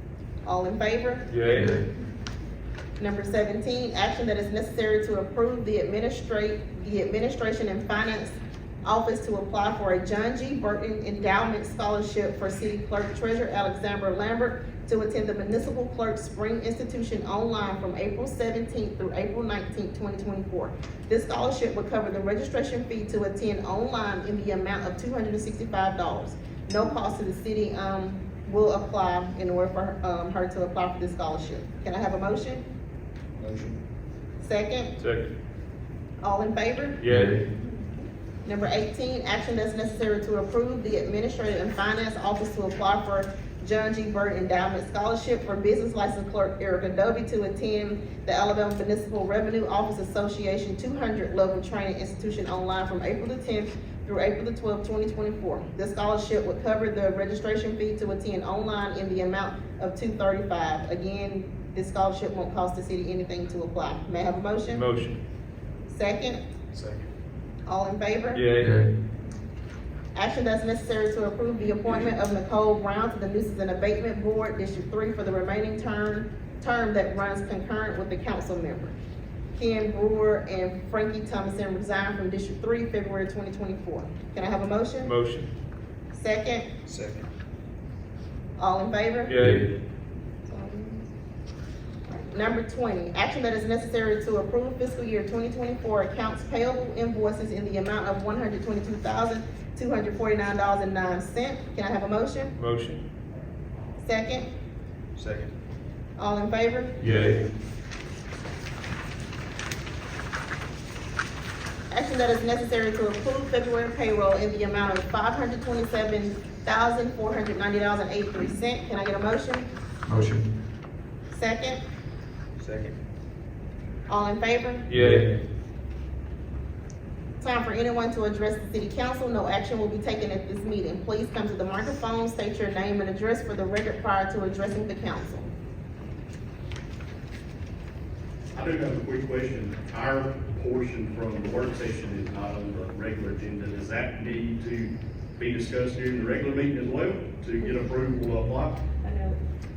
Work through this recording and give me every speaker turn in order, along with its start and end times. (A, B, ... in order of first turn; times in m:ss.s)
0:00.4-0:01.6 A
0:01.3-0:01.8 B
0:01.5-0:01.9 C
0:03.0-0:32.6 A
0:33.4-0:33.8 D
0:34.4-0:34.9 A
0:35.0-0:35.3 B
0:36.2-0:37.0 A
0:37.0-0:37.5 B
0:37.1-0:37.5 C
0:38.4-1:04.8 A
1:04.7-1:05.2 B
1:05.9-1:06.4 A
1:06.7-1:07.1 D
1:07.6-1:08.4 A
1:08.3-1:08.9 B
1:08.6-1:08.9 C
1:10.1-1:19.0 A
1:19.6-1:25.1 A
1:25.0-1:25.5 B
1:26.1-1:26.7 A
1:26.9-1:27.3 D
1:28.6-1:29.4 A
1:29.3-1:29.7 B
1:29.4-1:29.7 C
1:30.5-1:31.1 A
1:32.1-1:42.5 A
1:42.6-1:43.0 B
1:44.0-1:44.5 A
1:45.2-1:45.5 D
1:46.2-1:47.3 A
1:47.0-1:47.4 B
1:51.9-1:59.6 A
2:00.1-2:00.5 C
2:01.3-2:01.8 A
2:02.6-2:03.0 D
2:04.1-2:04.9 A
2:04.9-2:05.3 B
2:05.0-2:05.4 C
2:07.4-2:15.5 A
2:18.5-2:28.8 E
2:29.0-2:29.4 A